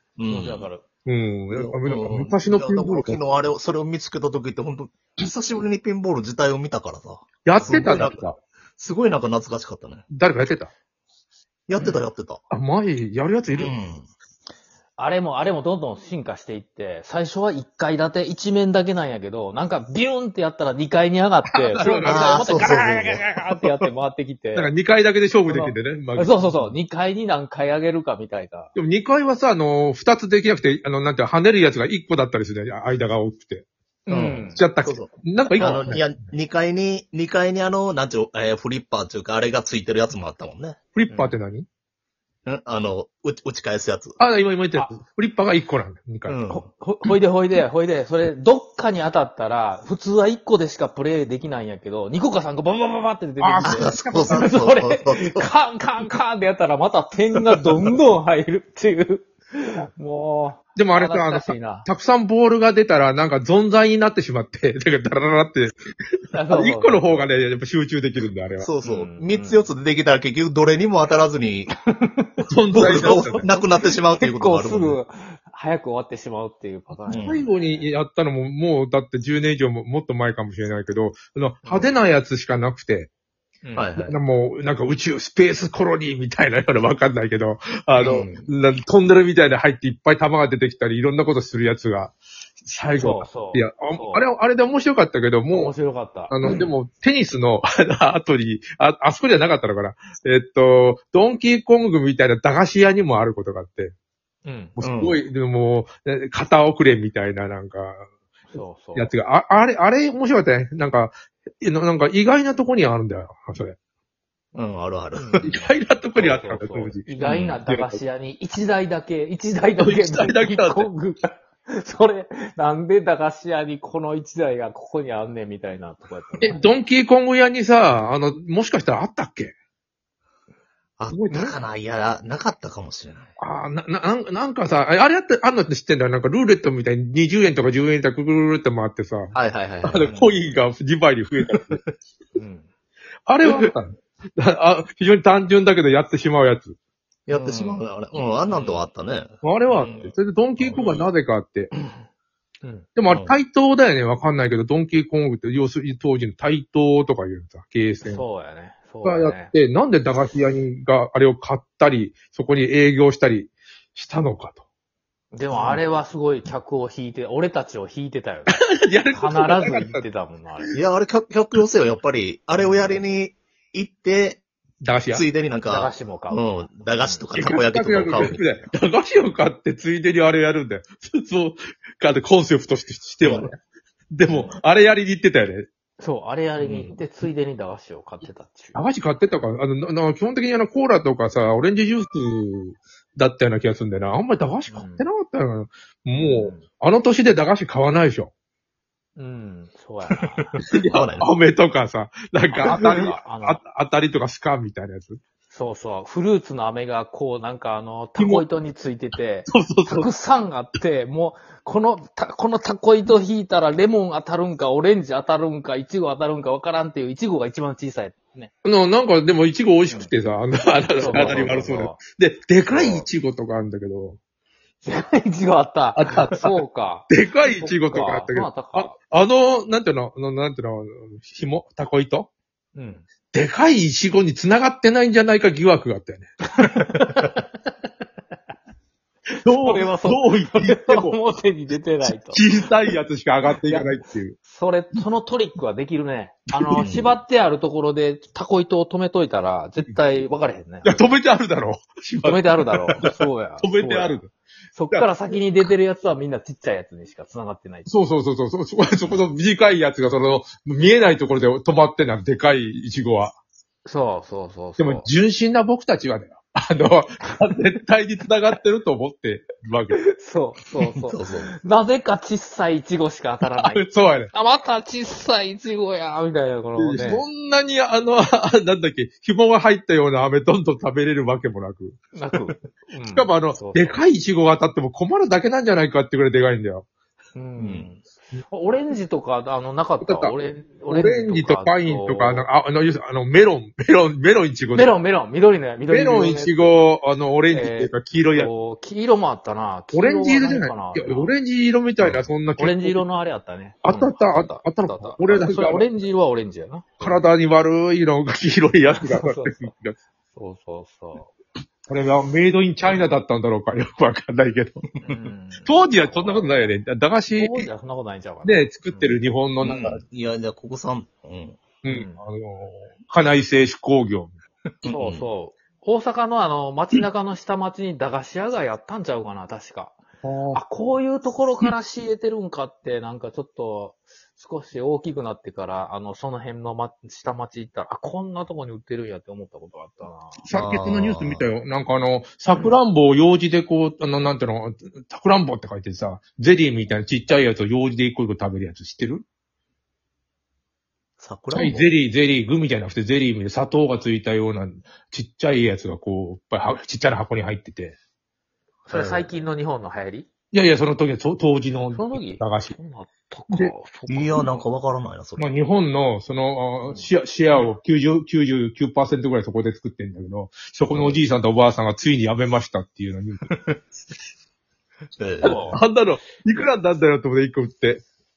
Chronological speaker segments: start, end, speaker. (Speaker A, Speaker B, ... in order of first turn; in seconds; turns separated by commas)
Speaker A: 0.2-0.7, Speaker B: 0.3-0.9, Speaker C: 1.1-3.2, Speaker A: 1.5-10.1, Speaker C: 7.4-8.4, Speaker C: 10.1-10.7, Speaker A: 11.7-12.4, Speaker C: 12.5-13.7, Speaker A: 13.5-14.1, Speaker B: 15.0-24.7, Speaker C: 21.5-22.8, Speaker A: 22.1-23.2, Speaker C: 23.4-23.8, Speaker C: 24.6-26.4, Speaker B: 25.5-28.7, Speaker C: 28.8-33.7, Speaker B: 34.1-34.6, Speaker A: 34.1-40.8, Speaker C: 34.5-36.0, Speaker C: 40.9-41.7, Speaker B: 41.1-41.4, Speaker A: 42.5-44.2, Speaker C: 44.2-46.4, Speaker A: 46.3-46.7, Speaker B: 46.5-61.9, Speaker C: 53.4-54.5, Speaker A: 53.6-55.5, Speaker C: 60.8-65.8, Speaker B: 66.3-67.1, Speaker C: 66.5-68.7, Speaker A: 68.6-71.8, Speaker B: 68.8-69.7, Speaker B: 72.0-73.3, Speaker C: 72.5-73.5, Speaker A: 72.7-75.0, Speaker B: 74.2-77.9, Speaker A: 77.1-77.4, Speaker C: 77.2-83.1, Speaker B: 81.7-81.9, Speaker B: 83.6-83.9, Speaker A: 83.8-84.2, Speaker C: 84.0-95.7, Speaker A: 88.0-88.5, Speaker B: 93.0-94.3, Speaker B: 95.5-96.4, Speaker C: 96.3-103.9, Speaker B: 104.5-104.8, Speaker C: 104.8-108.1, Speaker A: 104.8-105.2, Speaker B: 108.5-109.1, Speaker C: 108.9-113.8, Speaker A: 114.5-115.6, Speaker B: 115.2-115.5, Speaker C: 115.4-118.0, Speaker B: 116.2-126.6, Speaker A: 117.3-117.6, Speaker C: 119.8-120.9, Speaker C: 126.4-129.5, Speaker A: 131.0-133.3, Speaker C: 131.1-131.6, Speaker C: 133.4-141.8, Speaker A: 139.3-140.3, Speaker B: 142.3-142.7, Speaker C: 143.3-146.8, Speaker A: 143.4-143.7, Speaker A: 147.3-149.3, Speaker C: 147.3-147.8, Speaker B: 148.5-148.9, Speaker C: 149.4-151.7, Speaker B: 149.7-150.1, Speaker A: 150.6-151.0, Speaker C: 153.0-158.2, Speaker A: 153.1-153.3, Speaker B: 158.0-159.5, Speaker C: 159.0-164.6, Speaker B: 165.3-170.8, Speaker A: 165.5-165.8, Speaker C: 168.6-170.1, Speaker A: 170.7-174.4, Speaker B: 172.6-173.0, Speaker C: 174.8-175.2, Speaker A: 175.1-178.4, Speaker B: 175.7-176.4, Speaker B: 177.0-177.3, Speaker C: 177.3-183.6, Speaker A: 183.2-183.5, Speaker C: 184.1-185.7, Speaker B: 186.0-188.8, Speaker C: 188.8-198.3, Speaker B: 194.7-195.1, Speaker B: 196.2-196.6, Speaker B: 199.2-200.5, Speaker A: 200.5-201.3, Speaker C: 200.7-205.2, Speaker A: 202.6-203.1, Speaker B: 202.7-203.6, Speaker B: 205.5-218.5, Speaker C: 208.2-208.5, Speaker C: 209.5-210.1, Speaker C: 218.6-224.2, Speaker B: 221.0-222.0, Speaker B: 222.8-223.0, Speaker B: 224.8-229.0, Speaker C: 226.0-226.6, Speaker C: 227.1-232.3, Speaker B: 232.8-233.1, Speaker C: 233.3-236.4, Speaker B: 236.6-237.5, Speaker C: 239.4-241.2, Speaker B: 239.6-242.5, Speaker C: 242.3-244.4, Speaker B: 243.6-251.0, Speaker A: 246.8-247.2, Speaker C: 250.8-254.3, Speaker B: 252.2-254.2, Speaker B: 254.8-257.9, Speaker C: 254.9-255.7, Speaker C: 257.9-263.4, Speaker B: 263.9-265.1, Speaker C: 264.8-270.0, Speaker B: 270.1-277.3, Speaker A: 271.1-271.5, Speaker C: 273.6-274.3, Speaker C: 276.8-282.0, Speaker B: 282.1-284.0, Speaker C: 283.1-286.9, Speaker B: 287.4-292.5, Speaker A: 287.6-287.9, Speaker C: 290.0-290.4, Speaker C: 290.9-294.9, Speaker B: 294.7-296.8, Speaker C: 295.9-298.5, Speaker B: 297.5-301.3, Speaker C: 299.9-303.0, Speaker B: 302.6-307.2, Speaker C: 303.8-305.9, Speaker C: 307.0-310.0, Speaker B: 308.9-309.7, Speaker B: 310.3-311.3, Speaker C: 311.9-314.9, Speaker B: 315.0-316.8, Speaker C: 315.6-317.7, Speaker B: 317.4-319.2, Speaker C: 318.4-320.0, Speaker A: 319.6-321.6, Speaker C: 321.8-324.4, Speaker B: 321.9-322.2, Speaker A: 324.8-325.3, Speaker B: 324.9-330.0, Speaker C: 330.2-330.6, Speaker B: 330.5-340.4, Speaker C: 340.4-349.2, Speaker A: 340.5-341.4, Speaker A: 351.2-351.9, Speaker C: 351.5-358.0, Speaker B: 358.9-360.3, Speaker A: 358.9-359.3, Speaker C: 360.5-362.8, Speaker B: 361.9-364.6, Speaker A: 364.1-365.5, Speaker C: 365.4-373.5, Speaker A: 370.9-371.2, Speaker A: 375.2-375.6, Speaker B: 375.4-375.8, Speaker C: 375.4-378.1